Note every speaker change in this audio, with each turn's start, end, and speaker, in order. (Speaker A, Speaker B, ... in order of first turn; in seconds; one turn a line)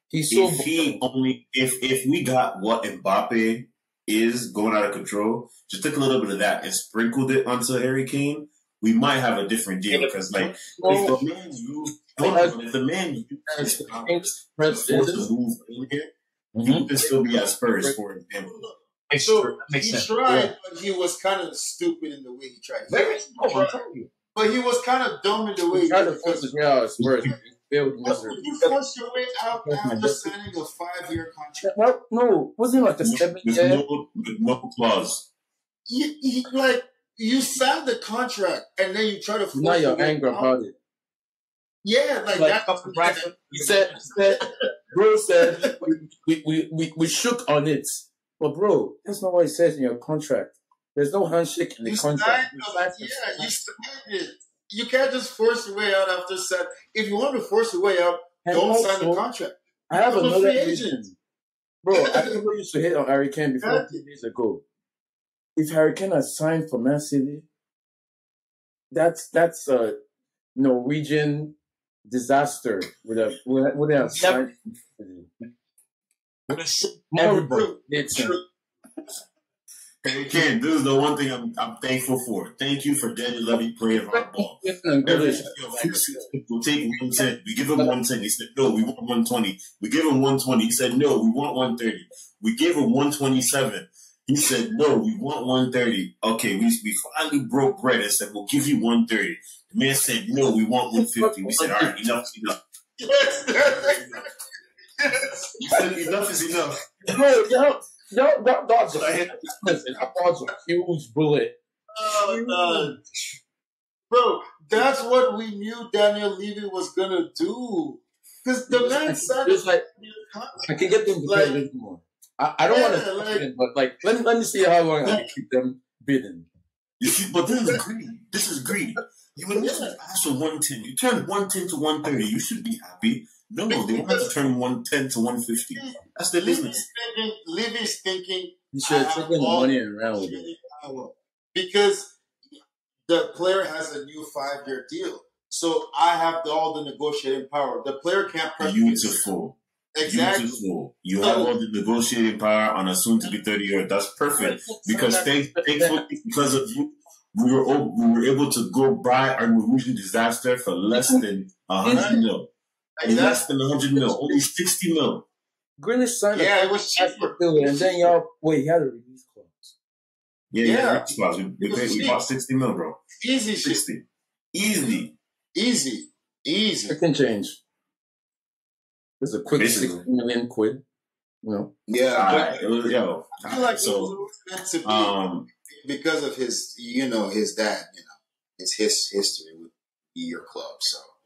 Speaker A: 0.1-1.0
Speaker B: 0.3-18.6
Speaker A: 10.4-11.2
Speaker A: 12.2-12.6
Speaker A: 13.5-15.3
Speaker C: 16.6-16.9
Speaker A: 17.0-17.9
Speaker D: 18.4-23.8
Speaker C: 19.1-20.5
Speaker C: 22.9-24.1
Speaker D: 24.3-26.5
Speaker A: 25.7-28.4
Speaker D: 28.1-31.7
Speaker C: 29.6-30.3
Speaker A: 31.6-33.8
Speaker B: 33.0-35.3
Speaker D: 35.9-40.5
Speaker A: 39.5-40.7
Speaker D: 41.8-43.3
Speaker C: 42.3-44.1
Speaker A: 43.5-44.4
Speaker A: 44.9-53.5
Speaker D: 45.4-45.9
Speaker D: 51.9-61.0
Speaker A: 58.4-59.2
Speaker A: 59.9-61.1
Speaker A: 61.8-64.6
Speaker D: 61.9-62.4
Speaker D: 63.6-64.0
Speaker A: 65.6-67.5
Speaker A: 68.9-70.0
Speaker A: 70.6-71.5
Speaker A: 72.1-75.3
Speaker C: 74.2-74.5
Speaker C: 76.5-77.7
Speaker A: 77.1-78.4
Speaker D: 77.5-78.4
Speaker B: 80.0-102.6
Speaker A: 84.0-86.3
Speaker A: 101.0-102.0
Speaker D: 103.0-104.3
Speaker D: 105.0-106.1
Speaker B: 105.7-107.2
Speaker A: 107.1-113.0
Speaker D: 112.0-113.0
Speaker D: 114.1-121.6
Speaker A: 118.7-119.8
Speaker A: 120.7-126.5
Speaker D: 122.7-123.5
Speaker B: 127.0-136.8
Speaker D: 129.5-129.9
Speaker D: 133.7-134.3
Speaker D: 135.8-142.2
Speaker A: 138.7-140.5
Speaker D: 143.1-149.2
Speaker B: 148.6-162.5
Speaker D: 149.9-150.6
Speaker D: 151.2-151.5
Speaker A: 154.4-156.0
Speaker A: 160.9-161.2
Speaker A: 161.8-162.2
Speaker D: 161.9-162.2
Speaker D: 163.0-163.4
Speaker B: 163.0-165.3
Speaker A: 165.8-169.7
Speaker D: 166.3-168.2
Speaker B: 170.5-173.0
Speaker D: 170.6-171.1
Speaker D: 171.6-172.2
Speaker D: 173.2-173.8
Speaker B: 173.6-175.2
Speaker D: 175.6-177.0
Speaker A: 176.9-177.6
Speaker A: 179.2-180.8
Speaker B: 179.6-180.1
Speaker A: 181.4-181.7
Speaker D: 181.9-182.6
Speaker B: 182.1-184.1
Speaker D: 183.4-185.2
Speaker B: 184.8-185.5
Speaker D: 185.8-191.1